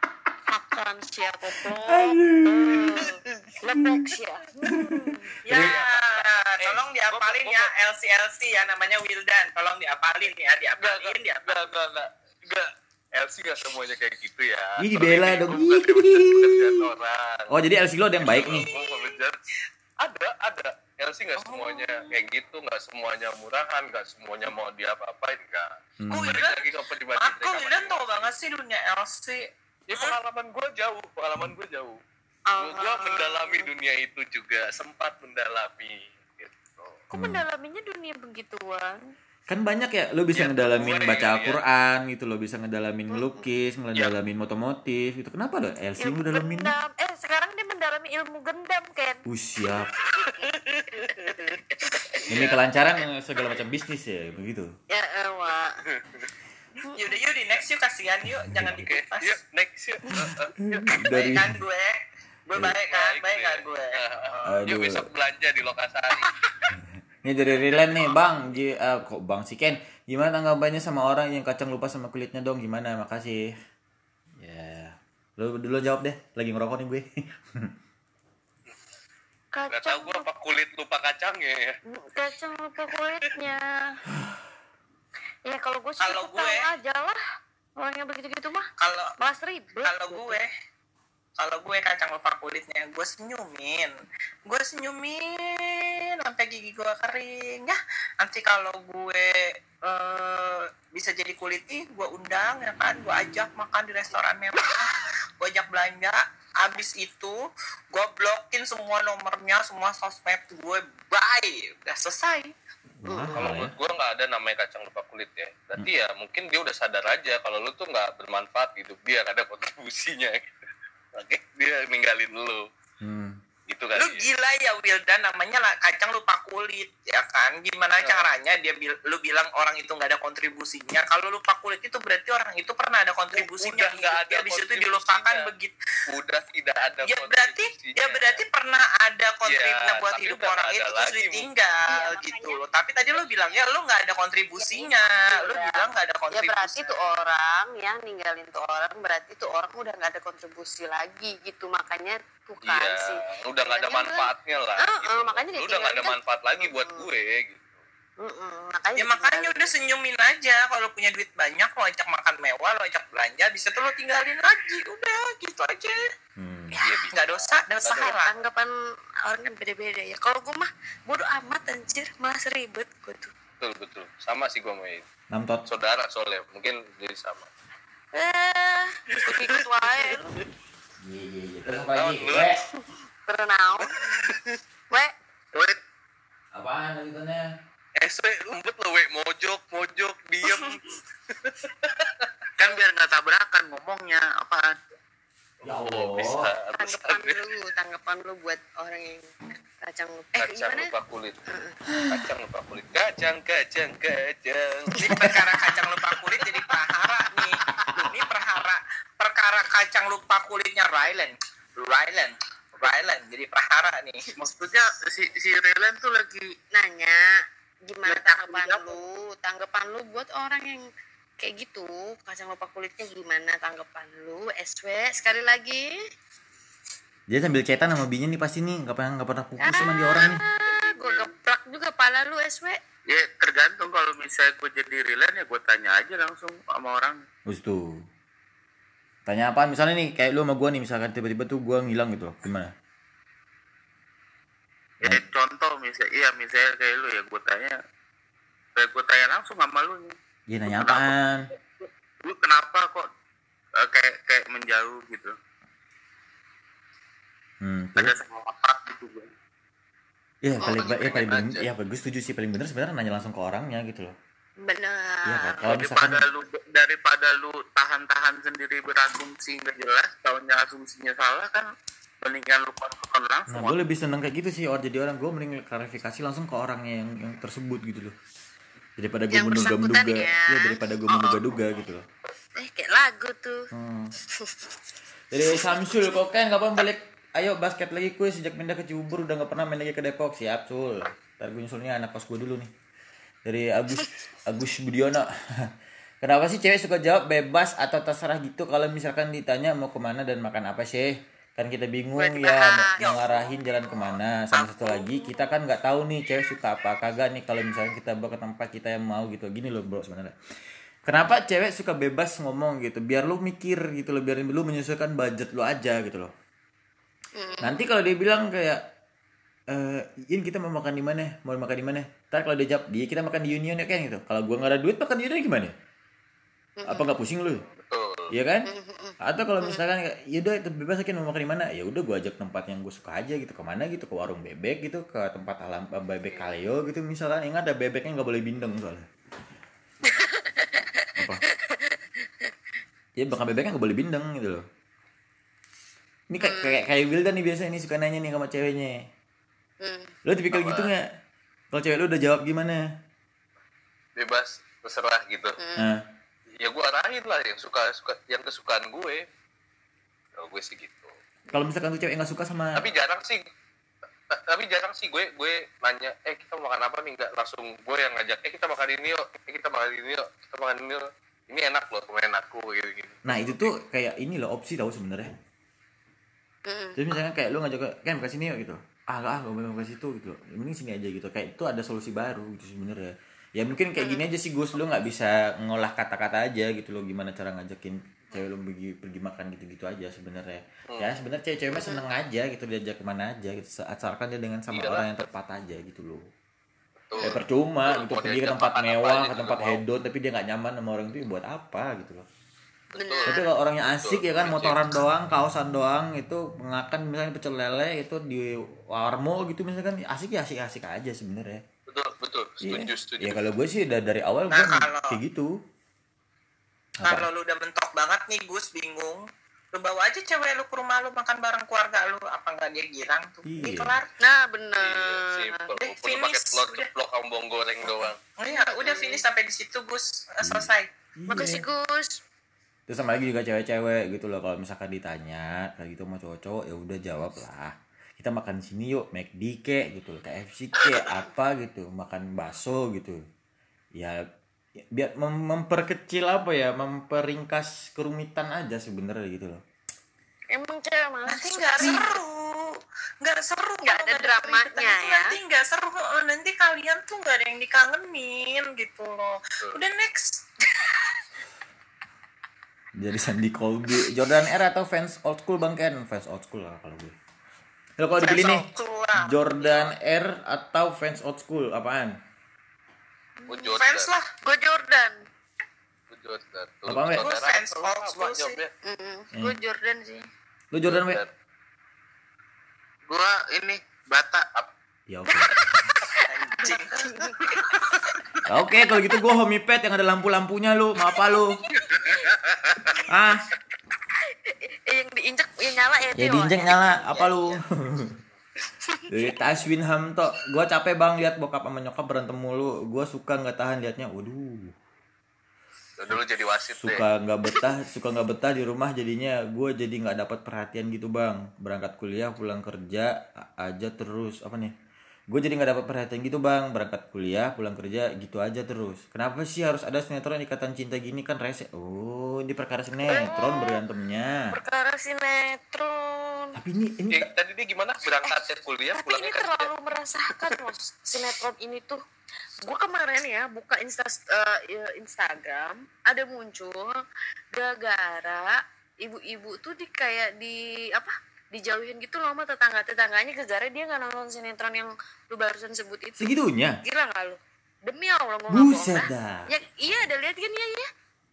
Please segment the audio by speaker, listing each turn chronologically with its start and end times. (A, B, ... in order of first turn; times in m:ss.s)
0:00.5-0:05.3 A
0:01.9-0:03.0 B
0:04.7-0:05.8 B
0:05.4-0:07.7 C
0:05.4-0:11.7 D
0:10.8-0:17.5 C
0:14.8-0:16.8 B
0:17.5-0:18.7 B
0:18.2-0:19.2 D
0:18.2-0:19.4 C
0:20.0-0:28.3 C
0:21.4-0:22.1 D
0:26.0-0:26.4 B
0:26.1-0:30.2 D
0:29.9-0:32.0 C
0:32.5-0:33.7 A
0:32.6-0:37.0 C
0:37.1-0:39.0 A
0:37.1-0:37.4 B
0:39.5-0:46.7 B
0:40.3-0:41.6 C
0:43.1-0:43.4 A
0:46.0-0:49.2 A
0:49.2-0:49.9 B
0:50.1-0:51.6 C
0:50.9-0:52.2 A
0:52.1-0:52.6 C
0:52.3-0:54.7 B
0:54.9-0:55.7 A
0:55.9-0:56.3 C
0:56.8-0:57.1 A
0:56.9-0:59.4 D
0:58.4-0:58.8 B
0:58.8-1:00.5 C
1:00.2-1:01.6 B
1:01.0-1:04.4 D
1:02.8-1:06.3 C
1:04.4-1:05.1 B
1:07.2-1:13.4 B
1:14.4-1:17.7 B
1:19.5-1:20.2 A
1:19.7-1:21.7 C
1:21.9-1:24.0 A
1:25.4-1:27.2 A
1:26.0-1:26.7 D
1:27.8-1:28.6 A
1:28.8-1:29.1 D
1:29.2-1:30.4 A
1:29.8-1:30.5 D
1:31.4-1:33.9 D
1:34.5-1:47.4 D
1:47.9-1:52.5 D
1:53.0-1:53.7 B
1:53.1-1:53.3 A
1:53.3-2:00.6 C
2:01.1-2:02.6 C
2:03.0-2:03.4 B
2:03.7-2:04.3 C
2:04.0-2:15.7 D
2:08.0-2:08.3 C
2:13.3-2:15.5 C
2:16.1-2:18.4 C
2:17.0-2:26.9 D
2:19.4-2:21.5 C
2:21.9-2:22.6 A
2:24.6-2:37.1 A
2:32.6-2:37.7 C
2:38.2-2:39.7 A
2:39.0-2:46.0 D
2:46.4-2:46.8 B
2:46.7-2:47.1 A
2:46.8-2:48.1 C
2:47.1-2:48.3 D
2:47.9-2:48.7 A
2:49.2-2:53.3 A
2:53.6-2:55.0 C
2:55.3-2:55.6 B
2:55.7-2:57.5 C
2:58.1-3:00.4 A
2:59.1-3:00.2 C
3:01.0-3:02.6 B
3:01.7-3:02.6 C
3:03.2-3:04.0 A
3:06.5-3:07.5 B
3:08.0-3:12.3 C
3:10.4-3:10.8 A
3:12.6-3:14.7 E
3:15.6-3:16.5 B
3:15.6-3:17.5 C
3:16.7-3:20.9 A
3:20.4-3:21.4 C
3:21.5-3:21.8 A
3:22.0-3:22.3 B
3:22.1-3:25.1 C
3:25.0-3:34.3 D
3:34.4-3:36.4 E
3:36.6-3:37.2 A
3:37.8-3:40.9 A
3:38.0-3:39.0 E
3:41.4-3:45.9 A
3:47.3-3:50.4 B
3:49.6-3:52.8 A
3:53.0-3:57.2 E
3:57.5-3:58.0 B
3:59.2-4:02.7 B
4:05.0-4:07.8 E
4:08.8-4:10.1 E
4:10.5-4:11.5 B
4:10.7-4:11.0 E
4:12.2-4:13.0 E
4:13.8-4:15.3 E
4:17.6-4:18.1 B
4:18.0-4:19.2 E
4:20.4-4:24.1 B
4:20.6-4:21.0 A
4:20.7-4:21.6 C
4:24.6-4:25.8 A
4:25.2-4:26.2 B
4:25.6-4:31.6 E
4:32.2-4:33.7 E
4:33.5-4:38.2 B
4:39.0-4:42.1 B
4:39.3-4:40.8 A
4:42.6-4:43.7 A
4:43.7-4:44.1 B
4:45.3-4:52.7 B
4:45.6-4:45.9 A
4:53.4-4:55.3 B
4:56.2-5:10.3 B
5:02.2-5:03.0 A
5:03.0-5:05.1 D
5:11.0-5:16.3 B
5:17.4-5:17.8 A
5:17.6-5:18.8 B
5:19.7-5:25.7 B
5:26.8-5:27.2 A
5:26.9-5:27.6 B
5:27.6-5:28.3 C
5:28.3-5:28.7 B
5:28.7-5:29.8 A
5:29.2-5:39.1 B
5:40.0-5:41.8 A
5:41.2-5:41.4 B
5:43.2-5:44.6 B
5:46.3-5:49.1 B
5:46.4-5:46.8 A
5:49.8-5:50.1 A
5:50.2-5:51.0 B
5:50.5-5:50.9 C
5:51.7-5:52.8 B
5:54.2-5:55.6 C
5:55.6-5:55.8 A
5:55.8-5:56.0 B
5:56.6-5:59.2 C
6:00.4-6:01.1 C
6:01.5-6:02.8 B
6:02.7-6:03.4 C
6:04.3-6:13.6 C
6:13.2-6:15.3 B
6:16.7-6:17.0 A
6:17.0-6:36.2 B
6:24.0-6:24.2 A
6:30.9-6:31.2 C
6:31.7-6:32.0 A
6:34.7-6:35.1 C
6:37.1-6:39.8 C
6:37.2-6:42.2 B
6:42.9-6:45.0 C
6:43.0-6:43.4 A
6:43.3-6:51.6 B
6:51.9-6:53.4 C
6:52.6-6:55.5 B
6:54.5-6:55.2 D
6:57.0-7:04.1 D
7:03.5-7:04.0 B
7:04.2-7:05.7 A
7:04.8-7:08.2 C
7:05.8-7:06.9 D
7:08.0-7:10.9 D
7:08.5-7:09.2 A
7:10.4-7:11.6 B
7:11.3-7:12.2 A
7:12.9-7:23.2 B
7:23.9-7:24.2 B
7:24.8-7:29.6 B
7:30.5-7:32.0 A
7:31.2-7:40.4 D
7:33.8-7:35.4 A
7:43.0-7:47.2 B
7:48.0-7:52.2 B
7:48.2-7:49.4 D
7:53.4-7:53.8 A
7:53.5-7:54.1 C
7:53.7-7:54.3 D
7:54.4-7:55.2 A
7:56.1-7:58.7 C
7:56.8-7:57.3 B
7:57.2-7:58.6 D
7:58.8-8:00.3 A
8:00.7-8:01.2 B
8:00.8-8:01.3 C
8:03.1-8:04.4 E
8:05.1-8:05.9 B
8:05.3-8:07.4 A
8:06.2-8:07.6 D
8:08.4-8:11.6 B
8:12.3-8:12.7 C
8:13.0-8:13.5 B
8:14.5-8:16.9 A
8:16.2-8:18.2 B
8:16.9-8:17.6 D
8:19.1-8:24.7 B
8:26.0-8:27.0 C
8:26.8-8:34.7 B
8:35.3-8:44.5 B
8:43.0-8:43.8 A
8:44.5-8:46.6 A
8:46.6-8:47.3 B
8:47.1-8:49.7 C
8:48.2-8:52.0 A
8:52.6-8:57.0 A
8:57.5-9:10.9 A
9:06.2-9:06.8 B
9:08.5-9:09.5 B